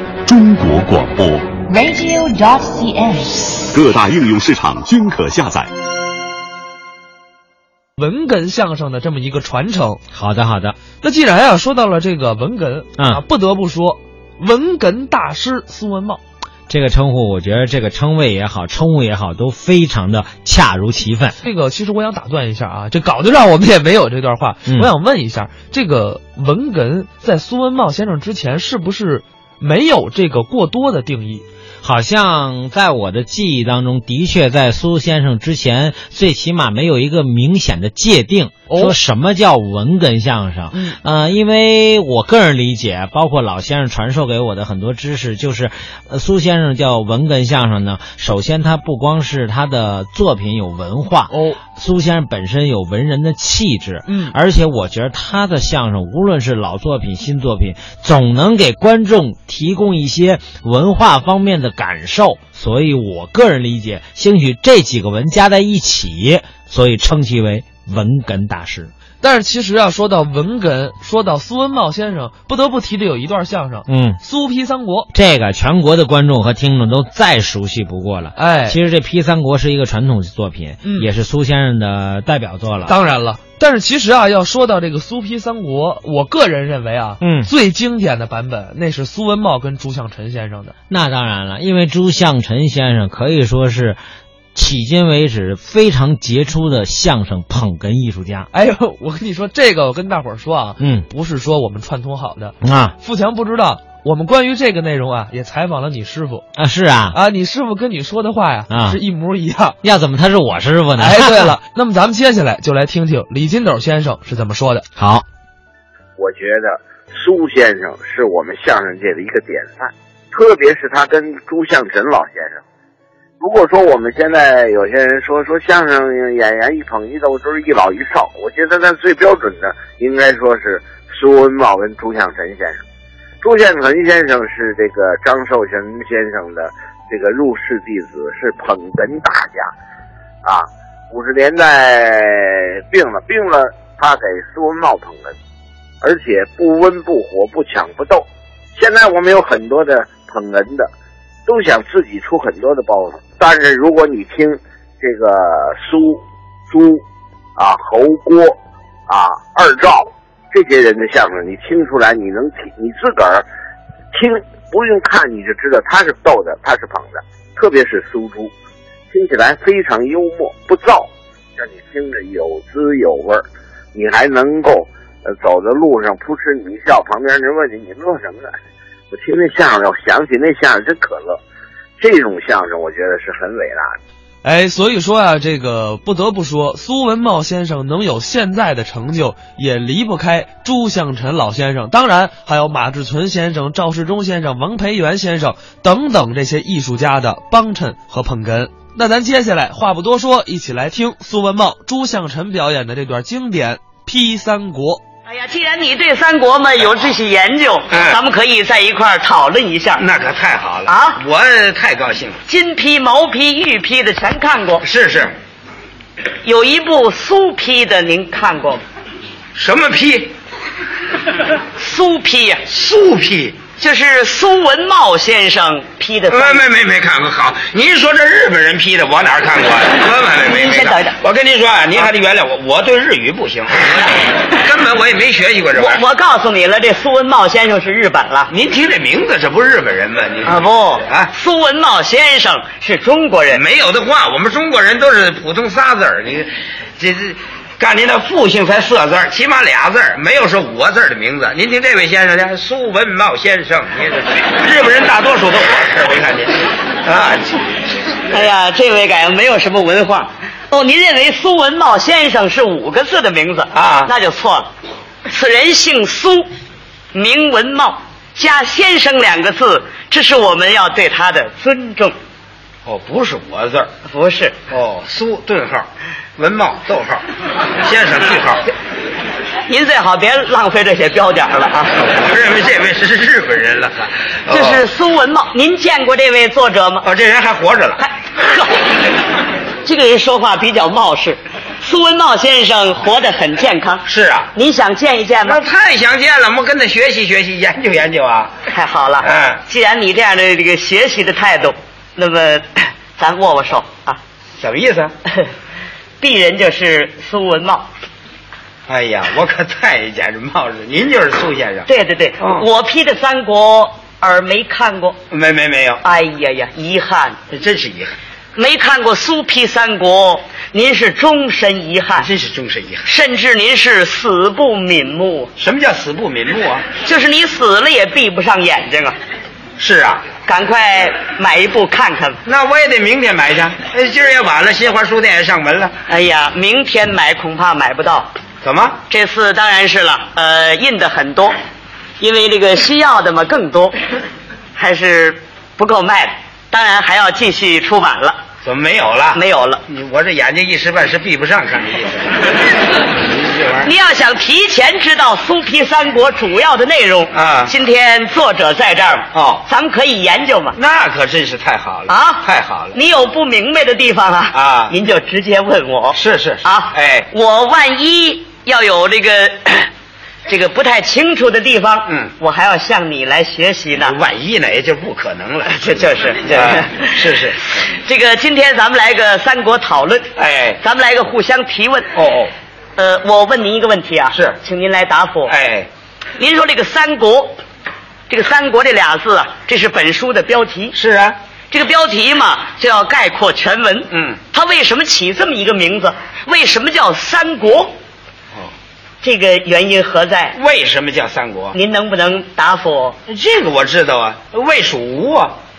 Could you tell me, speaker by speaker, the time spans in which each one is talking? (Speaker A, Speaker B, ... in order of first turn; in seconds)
Speaker A: 0.3-1.3, 3.7-5.6
Speaker B: 1.6-3.7
Speaker C: 8.0-10.0, 11.0-16.2, 21.4-31.4, 38.7-39.0, 40.7-41.0, 51.3-51.6, 54.1-54.4, 69.2-75.1, 78.3-78.8, 80.8-81.1, 82.8-90.7, 98.5-106.4, 107.1-109.8, 111.0-114.8, 184.4-205.0
Speaker D: 10.1-10.8, 13.0-13.2, 16.7-21.4, 31.8-68.9, 73.9-74.2, 75.1-83.0, 87.2-87.5, 90.9-94.0, 94.5-98.5, 100.8-101.0, 102.6-102.9, 106.6-107.2, 108.7-109.0, 109.8-111.5, 115.0-115.2
Speaker E: 116.2-122.6, 123.4-132.8, 133.4-139.7, 140.4-145.3, 146.0-150.9, 151.5-157.0, 157.6-158.6, 159.1-163.4, 164.1-168.5, 169.1-178.6, 179.1-181.4, 182.0-183.9
Speaker F: 205.2-210.0, 210.9-211.2, 212.5-214.8, 216.4-218.8, 221.7-222.6, 223.8-226.6, 230.5-231.2, 235.8-238.5, 240.5-243.6, 258.3-264.7, 265.3-266.5, 267.1-272.1, 274.1-274.6, 279.6-282.0, 284.5-287.1, 288.0-288.7, 289.8-295.6, 298.7-304.2, 306.2-307.9, 311.9-315.2, 316.0-317.4, 318.6-322.3, 323.1-325.5, 327.0-329.2, 330.4-332.4, 336.1-338.3, 339.1-341.5, 342.2-343.9, 344.7-348.4, 349.3-349.8, 353.8-360.8, 362.1-369.9, 370.5-374.1, 375.6-382.1, 382.9-385.5, 386.4-387.6, 388.3-390.9, 391.7-397.9, 399.2-400.6, 401.7-403.2
Speaker G: 207.9-208.2, 210.0-212.4, 214.8-215.3, 219.5-220.3, 222.7-223.6, 226.3-236.0, 238.5-241.3, 243.5-257.8, 263.7-264.1, 272.9-273.9, 274.7-278.6, 282.0-284.8, 287.0-288.0, 294.1-294.5, 295.4-298.5, 299.2-299.6, 304.6-305.1, 308.9-311.9, 312.4-312.6, 315.3-316.0, 317.5-318.1, 322.2-323.1, 325.6-326.8, 329.8-330.2, 332.4-335.9, 338.6-339.0, 348.6-352.5, 353.2-353.9, 357.3-357.7, 359.3-359.6, 360.8-362.9, 364.5-364.9, 366.1-367.3, 374.0-377.6, 380.4-380.8, 382.1-382.5, 385.5-385.9, 390.9-391.4, 394.1-394.4, 400.5-401.8, 403.3-405.6